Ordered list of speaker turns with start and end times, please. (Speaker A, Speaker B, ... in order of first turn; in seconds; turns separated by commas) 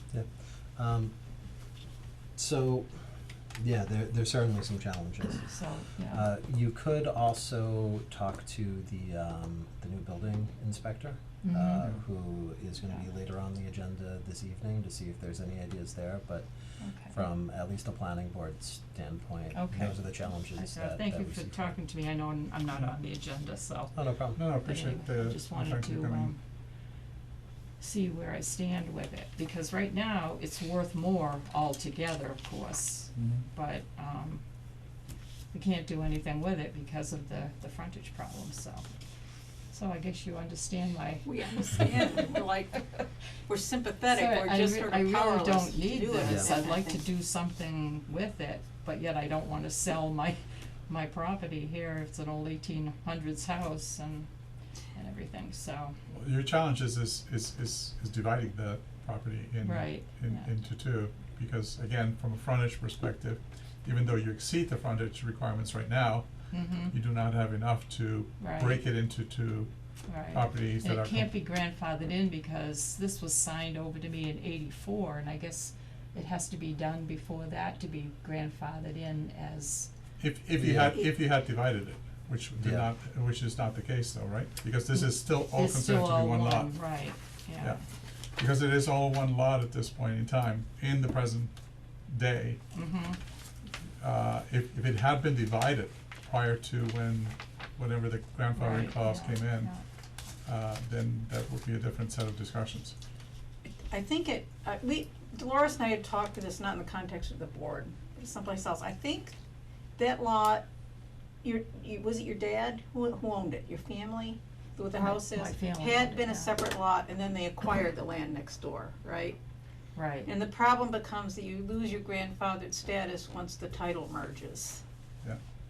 Speaker A: 0.1-1.1, Speaker A: 2.4-3.0, Speaker A: 3.5-5.5, Speaker B: 5.5-6.2, Speaker A: 6.1-16.5, Speaker B: 11.4-11.9, Speaker B: 16.8-17.1, Speaker A: 17.0-21.7, Speaker B: 19.5-19.9, Speaker B: 20.5-23.9, Speaker A: 23.9-24.4, Speaker C: 24.4-26.3, Speaker B: 24.5-26.4, Speaker B: 27.8-34.4, Speaker C: 33.1-33.5, Speaker B: 35.5-38.8, Speaker B: 39.7-42.4, Speaker D: 41.2-43.0, Speaker D: 43.5-47.0, Speaker B: 44.1-54.3, Speaker A: 46.2-46.5, Speaker B: 54.9-56.0, Speaker C: 56.1-66.3, Speaker B: 59.6-60.5, Speaker B: 66.5-66.9, Speaker C: 66.9-69.7, Speaker B: 68.4-68.8, Speaker B: 70.1-79.9, Speaker C: 70.3-71.3, Speaker C: 80.2-86.7, Speaker A: 80.5-81.0, Speaker A: 82.6-82.9, Speaker B: 84.9-87.8, Speaker C: 88.4-91.5, Speaker C: 92.1-92.6, Speaker B: 92.7-93.2, Speaker C: 94.0-99.7, Speaker B: 98.5-99.8, Speaker C: 100.4-102.9, Speaker D: 103.7-109.3, Speaker D: 110.0-110.6, Speaker D: 111.4-119.4, Speaker B: 115.0-116.5, Speaker B: 119.9-120.3, Speaker D: 120.2-124.8